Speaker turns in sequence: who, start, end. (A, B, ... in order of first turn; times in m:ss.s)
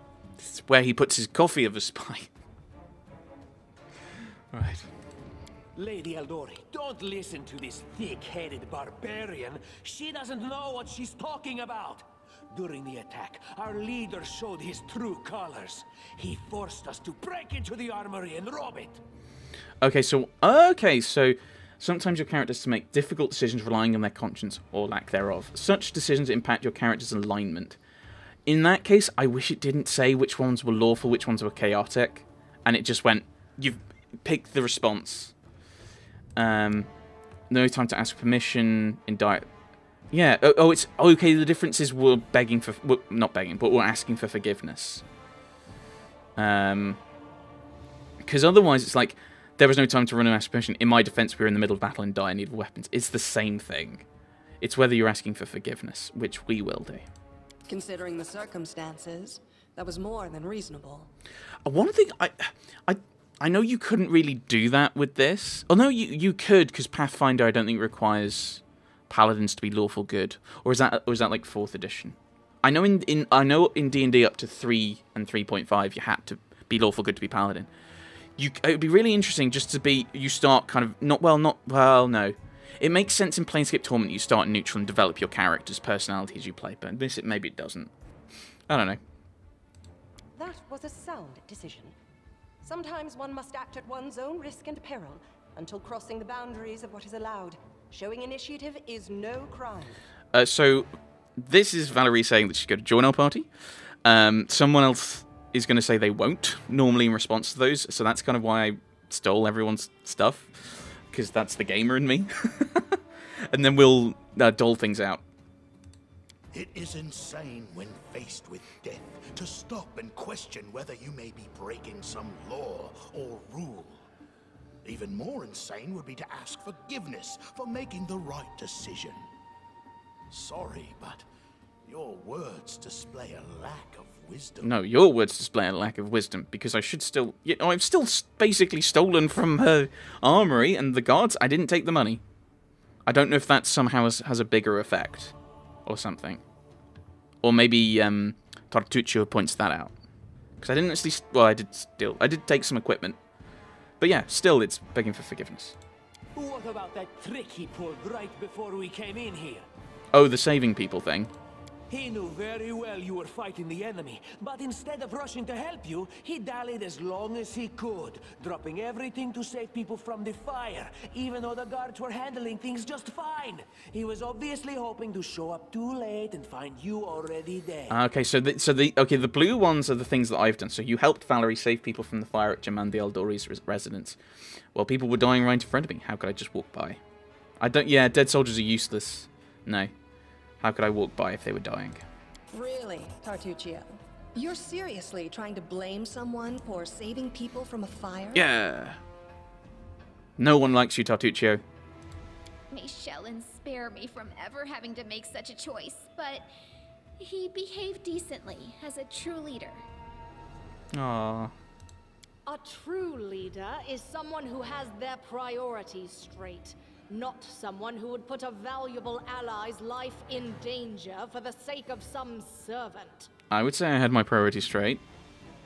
0:00.4-0:02.3 A
0:04.5-0:04.9 A
0:05.7-0:19.0 B
0:19.8-0:27.8 A
0:28.4-0:35.3 A
0:36.4-0:36.9 A
0:37.5-0:39.4 A
0:40.1-0:45.0 A
0:46.4-0:47.0 A
0:48.2-0:54.0 A
0:54.6-0:57.0 A
0:57.7-1:01.1 C
1:01.6-1:17.7 A
1:18.4-1:27.9 A
1:28.7-1:29.0 A
1:30.3-1:31.9 D
1:32.6-1:40.0 D
1:40.3-1:43.5 A
1:44.0-1:53.0 A
1:53.5-1:55.2 A
1:56.5-2:04.0 E
2:04.8-2:09.3 E
2:10.3-2:11.2 E
2:11.9-2:14.7 E
2:14.6-2:22.2 A
2:23.1-2:25.3 A
2:25.8-2:26.4 A
2:27.4-2:29.9 A
2:30.6-2:33.2 A
2:34.0-2:35.8 A
2:36.3-2:39.7 B
2:40.1-2:41.3 A
2:41.9-2:58.0 B
2:57.9-3:04.2 A
3:04.7-3:07.0 A
3:07.6-3:09.9 A
3:10.6-3:12.0 A
3:12.5-3:18.4 C
3:18.3-3:19.0 A
3:20.4-3:21.6 A
3:22.7-3:26.5 F
3:27.2-3:29.8 F
3:30.9-3:31.5 A
3:32.4-3:43.3 G
3:43.5-3:45.0 A